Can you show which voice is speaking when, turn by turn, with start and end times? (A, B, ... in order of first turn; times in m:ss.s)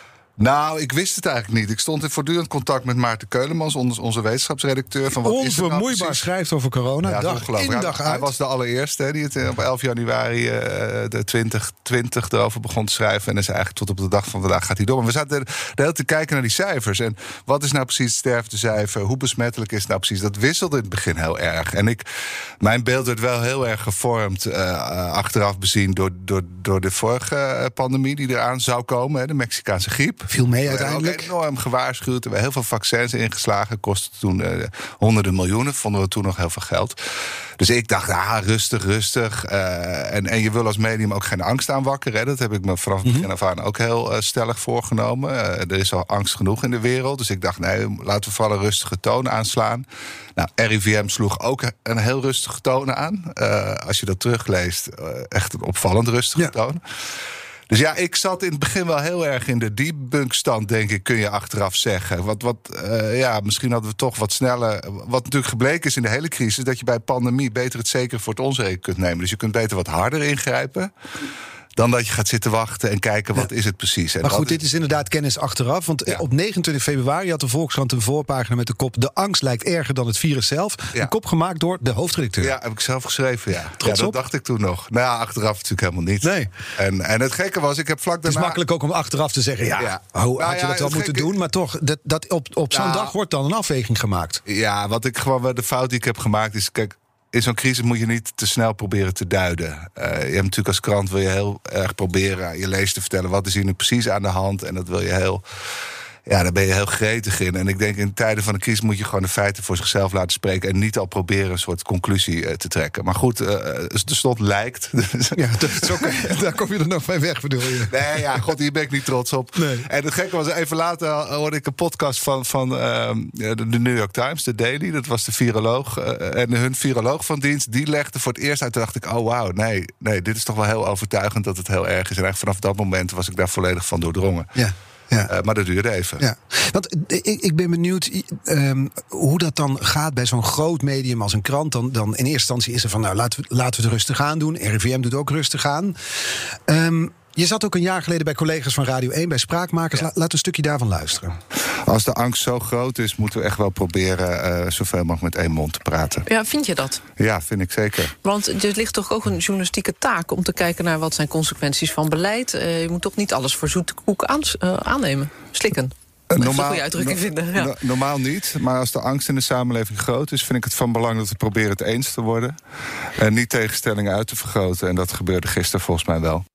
0:00.4-0:06.3 A
0:05.2-0:08.3 B
0:07.1-0:22.0 A
0:22.6-0:37.0 A
0:30.3-0:31.3 B
0:37.6-0:49.8 A
0:50.4-0:56.8 A
0:57.7-1:10.9 A
1:11.8-1:14.6 A
1:14.2-1:22.6 B
1:22.4-1:28.6 A
1:23.8-1:24.2 B
1:26.2-1:26.5 B
1:28.2-1:34.4 B
1:29.8-1:31.3 A
1:32.7-1:33.1 A
1:34.5-1:45.4 A
1:46.3-1:56.3 A
1:55.4-1:58.0 B
1:57.9-2:14.6 A
1:59.6-1:59.9 B
2:14.6-2:15.3 B
2:15.3-2:16.2 A
2:16.2-2:26.0 B
2:26.7-2:31.4 B
2:31.8-2:36.2 A
2:36.3-2:37.0 C
2:37.2-2:38.1 A
2:38.2-2:47.7 C
2:46.3-2:52.6 A
2:53.2-2:56.4 A